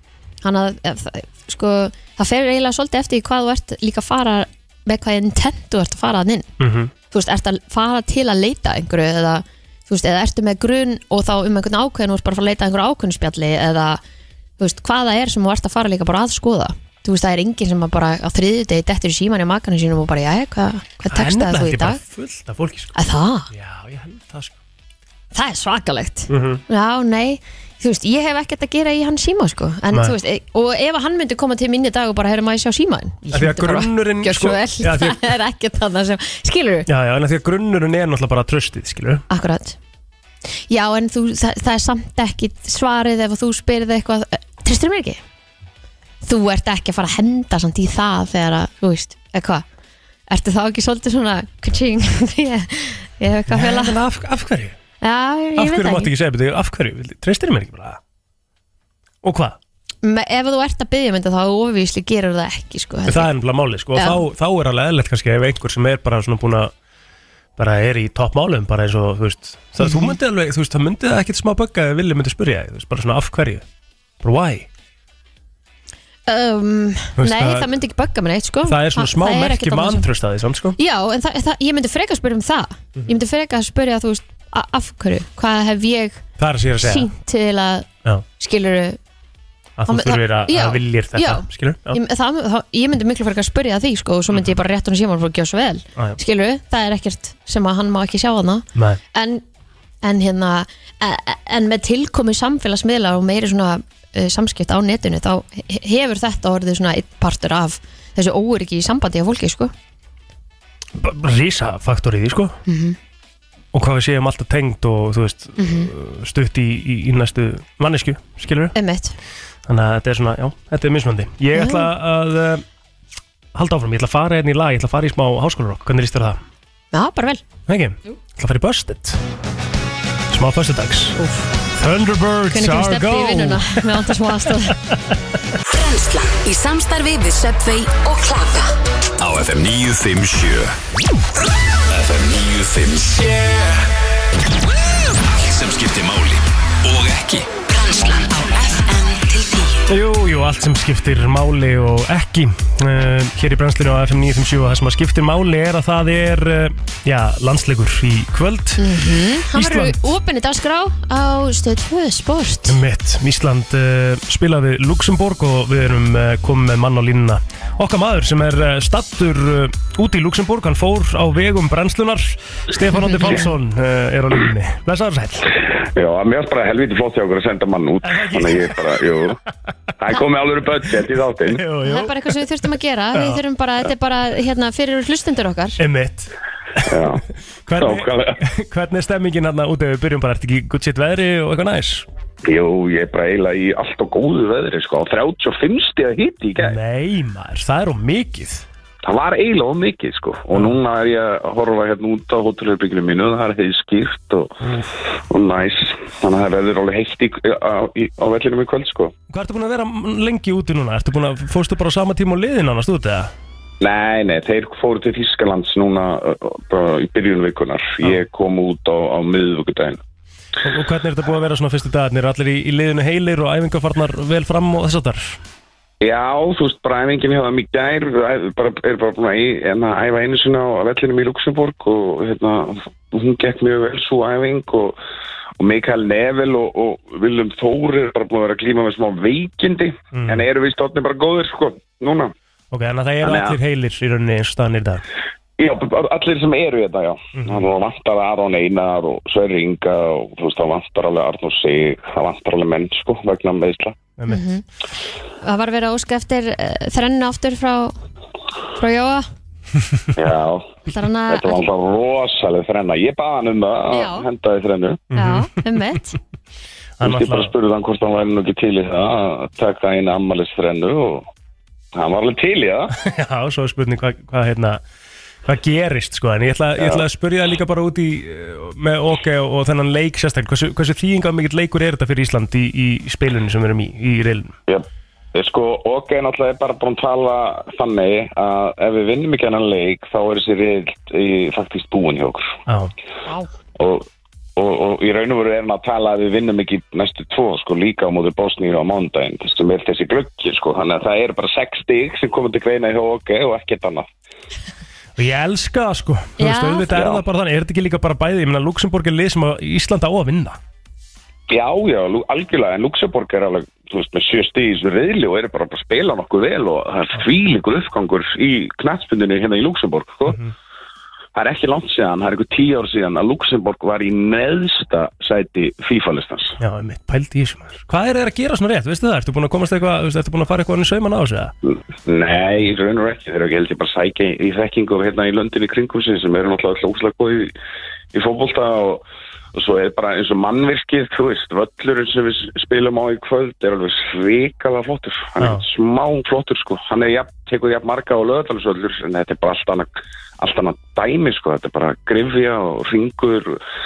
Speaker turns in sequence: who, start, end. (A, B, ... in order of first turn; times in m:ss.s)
0:00.4-0:06.5 A
0:06.6-0:06.9 B
0:07.1-0:14.0 A
0:14.6-0:22.0 A
0:21.0-0:23.0 B
0:23.0-0:23.5 A
0:23.5-0:24.6 B
0:25.3-0:36.9 A
0:26.3-0:26.6 B
0:29.9-0:30.2 B
0:33.3-0:35.2 B
0:36.9-0:39.2 B
0:39.3-0:39.8 A
0:40.7-0:45.2 A
0:46.2-0:49.6 A
0:50.3-0:54.0 A
0:53.5-0:54.8 B
0:55.0-0:56.1 A
0:55.6-0:58.0 B
0:59.2-0:59.6 B
1:00.0-1:03.3 A
1:03.1-1:06.7 B
1:04.0-1:04.2 A
1:07.6-1:13.6 B
1:09.8-1:10.1 A
1:14.2-1:14.7 B
1:16.3-1:20.1 A
1:17.2-1:17.7 B
1:18.6-1:20.8 B
1:20.8-1:26.2 A
1:26.4-1:27.1 B
1:26.8-1:27.9 A
1:28.4-1:29.0 A
1:29.8-1:32.0 B
1:29.9-1:39.4 A
1:38.8-1:39.0 B
1:40.0-1:49.7 A
1:51.0-1:52.6 B
1:52.7-1:53.0 A
1:53.7-1:58.8 B
1:55.6-1:55.9 A
1:58.7-1:59.2 A
1:59.7-2:02.6 B
2:01.5-2:01.9 A
2:03.6-2:06.4 B
2:06.9-2:07.4 A
2:07.7-2:09.2 B
2:10.3-2:11.2 B
2:11.2-2:11.5 A
2:11.7-2:15.2 B
2:12.5-2:14.8 A
2:15.7-2:18.7 C
2:19.2-2:20.8 D
2:21.9-2:23.7 D
2:25.1-2:27.5 D
2:27.7-2:29.6 C
2:29.9-2:38.8 B
2:38.8-2:42.8 A
2:39.5-2:40.0 B
2:42.7-2:55.5 B
2:53.0-2:53.5 A
2:55.8-2:59.4 E
2:58.0-2:59.0 B
3:00.0-3:01.6 E
3:01.5-3:02.5 B
3:01.8-3:05.8 A
3:03.1-3:03.4 B
3:05.8-3:07.1 B
3:06.8-3:08.4 E
3:07.7-3:12.1 B
3:12.4-3:16.8 E
3:16.6-3:18.7 B
3:19.0-3:24.5 E
3:24.6-3:24.9 B
3:25.3-3:29.1 E
3:29.3-3:33.3 B
3:33.8-3:40.0 E
3:40.6-3:45.4 B
3:46.0-3:55.0 E
3:55.6-4:02.3 E
4:00.1-4:00.4 B
4:02.7-4:05.0 B
4:03.2-4:03.6 E
4:05.6-4:14.0 E
4:07.4-4:07.6 B
4:14.2-4:14.4 B
4:14.3-4:14.6 A
4:15.4-4:18.0 A
4:18.8-4:19.3 A
4:20.2-4:20.8 E
4:20.9-4:21.6 A
4:21.3-4:25.0 E
4:23.9-4:24.3 A
4:25.1-4:25.5 B
4:25.1-4:26.2 A
4:27.0-4:27.5 B
4:27.0-4:31.2 E
4:31.9-4:32.9 E
4:33.0-4:34.8 B
4:35.5-4:44.6 B
4:36.8-4:37.0 E
4:44.7-4:52.4 E
4:52.7-4:52.9 B
4:53.8-5:04.1 E
5:05.2-5:10.6 B
5:06.4-5:06.9 A
5:06.9-5:07.2 E
5:11.5-5:20.4 E
5:21.4-5:26.6 E
5:26.6-5:31.5 B
5:32.0-5:37.5 E
5:38.1-5:39.0 E
5:39.5-5:49.9 E
5:50.4-5:53.6 E